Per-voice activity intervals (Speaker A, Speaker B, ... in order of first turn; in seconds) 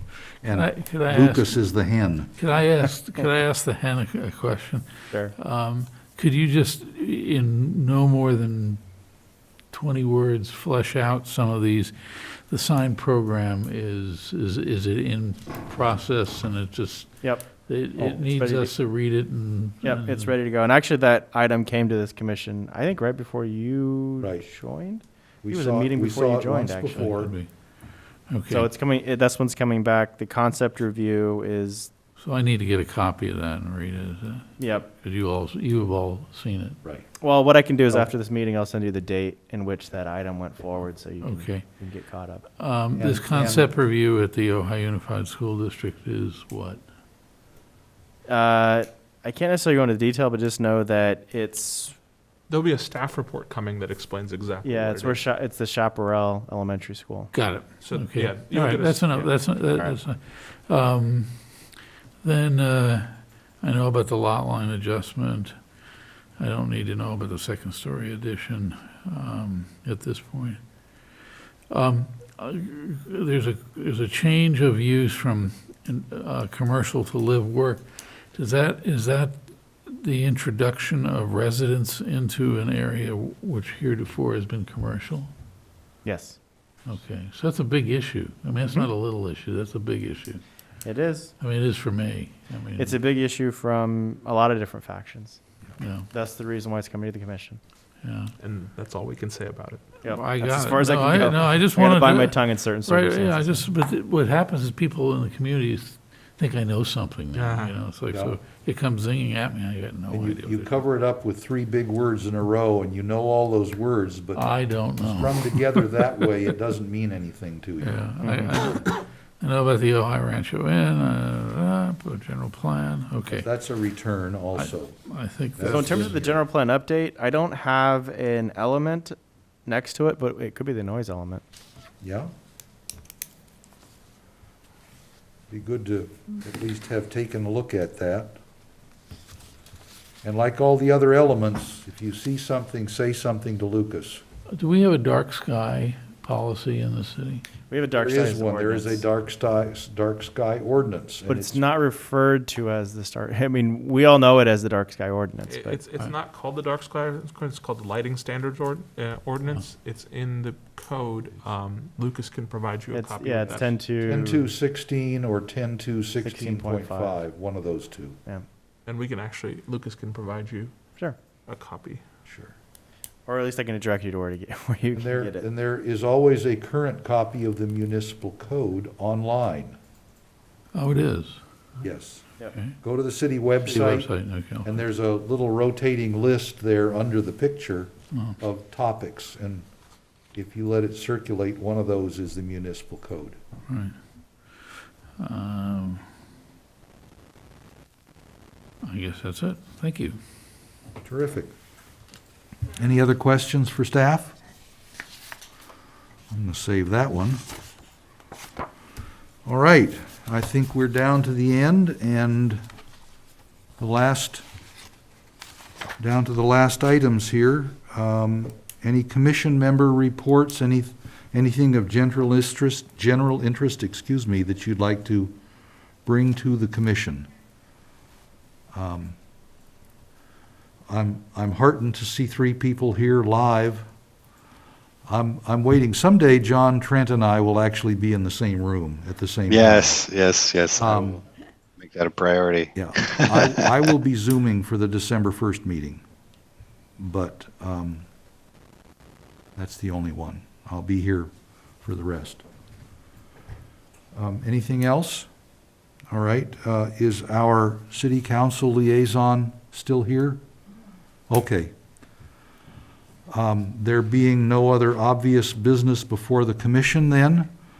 Speaker A: 0.4-2.3, 24.2-24.5, 25.4-27.3, 42.9-43.7, 108.1-108.4, 110.1-118.1, 123.3-125.0, 125.5-126.4, 132.0-132.3, 135.5-138.4, 140.2-144.2, 148.0-151.6, 164.0-168.2, 172.2-172.5, 174.9-179.8, 181.8-182.3, 182.8-184.1, 184.6-189.7, 190.3-193.4, 201.0-201.5, 202.7-204.3, 206.3-207.4, 209.4-212.6, 213.8-214.4, 216.0-225.3, 226.0-227.3, 228.7-229.2, 230.9-233.9, 235.1-240.1, 240.8-241.2, 242.7-246.0, 247.0-248.1, 249.6-251.3, 251.8-252.4, 254.1-255.3, 256.1-260.4, 261.3-261.7, 263.3-267.5
Speaker B: 0.5-1.6, 2.4-8.8, 9.7-20.3, 26.9-27.5, 28.3-28.7, 32.2-36.8, 41.2-41.6, 42.6-46.8, 57.3-61.4, 62.2-65.5, 66.4-70.6, 71.7-85.3, 86.8-90.4, 91.4-92.9, 95.8-96.1, 98.0-98.3, 100.1-110.8, 114.3-116.0, 117.8-123.5, 124.5-126.2, 144.5-147.4, 180.7-181.4, 183.7-184.7, 188.1-188.4, 193.7-193.9, 195.2-196.1, 198.8-200.2
Speaker C: 17.2-18.8, 19.8-27.2, 28.5-31.9, 34.6-34.9, 37.2-42.5, 48.2-52.0, 54.6-57.3, 86.0-86.4, 90.8-91.3, 92.8-95.4, 96.1-97.6, 100.0-103.7, 118.2-118.6, 125.6-131.4, 147.7-149.0, 151.3-155.8, 162.9-164.5, 166.2-167.2, 173.3-175.5
Speaker D: 52.5-55.2, 57.8-59.5, 98.4-99.9, 107.3-107.8, 155.5-163.7, 168.8-170.7, 171.5-172.0
Speaker E: 239.5-241.2, 241.8-243.9